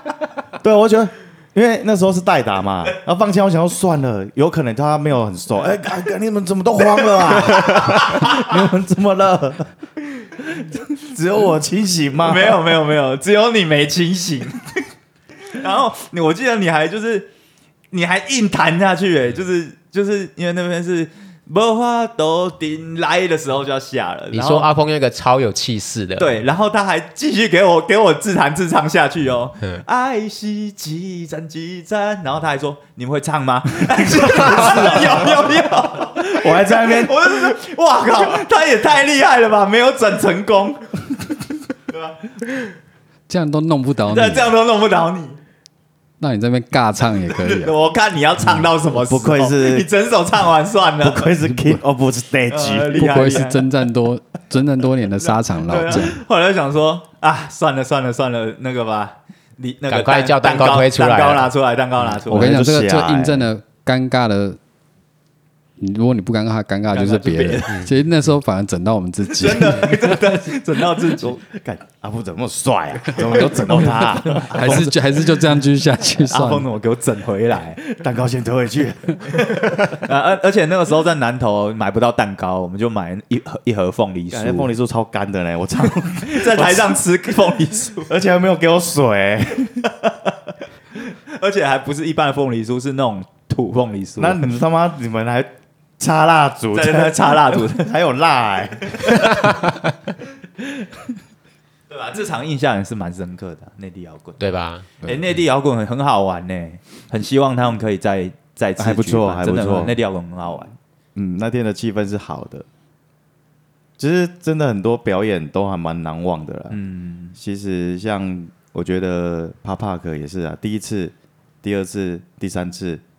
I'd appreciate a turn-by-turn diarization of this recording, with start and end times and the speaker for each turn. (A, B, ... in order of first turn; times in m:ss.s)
0:00.6-0:09.7 A
0:07.3-0:08.5 B
0:10.4-0:12.6 A
0:12.2-0:14.8 B
0:15.5-0:17.3 B
0:17.9-0:24.7 B
0:24.3-0:26.4 C
0:26.2-0:41.0 B
0:33.9-0:35.6 A
0:36.2-0:37.5 A
0:41.9-0:42.2 B
0:43.3-0:44.5 D
0:44.1-0:45.4 B
0:46.2-0:47.7 D
0:47.3-0:51.3 B
0:48.9-0:49.9 A
0:51.0-0:53.2 A
0:52.5-0:53.7 B
0:52.9-0:56.2 D
0:55.6-1:02.6 B
0:59.9-1:01.5 C
1:02.2-1:04.6 D
1:02.3-1:03.5 A
1:05.8-1:10.1 D
1:06.9-1:07.8 B
1:09.3-1:11.4 B
1:09.9-1:10.2 A
1:11.0-1:14.8 A
1:13.3-1:14.9 B
1:14.1-1:16.7 D
1:16.2-1:17.8 B
1:17.9-1:20.0 A
1:19.4-1:24.7 B
1:24.3-1:27.0 A
1:26.2-1:28.1 B
1:28.1-1:29.9 A
1:30.0-1:30.3 B
1:30.9-1:34.4 B
1:34.2-1:39.7 A
1:36.7-1:37.9 B
1:39.3-1:39.7 C
1:41.9-1:44.4 B
1:44.4-1:44.9 C
1:45.0-1:50.7 B
1:45.0-1:45.3 D
1:48.8-1:50.0 A
1:51.1-1:52.6 A
1:54.0-1:56.8 A
1:56.7-1:57.4 B
1:57.3-2:03.0 A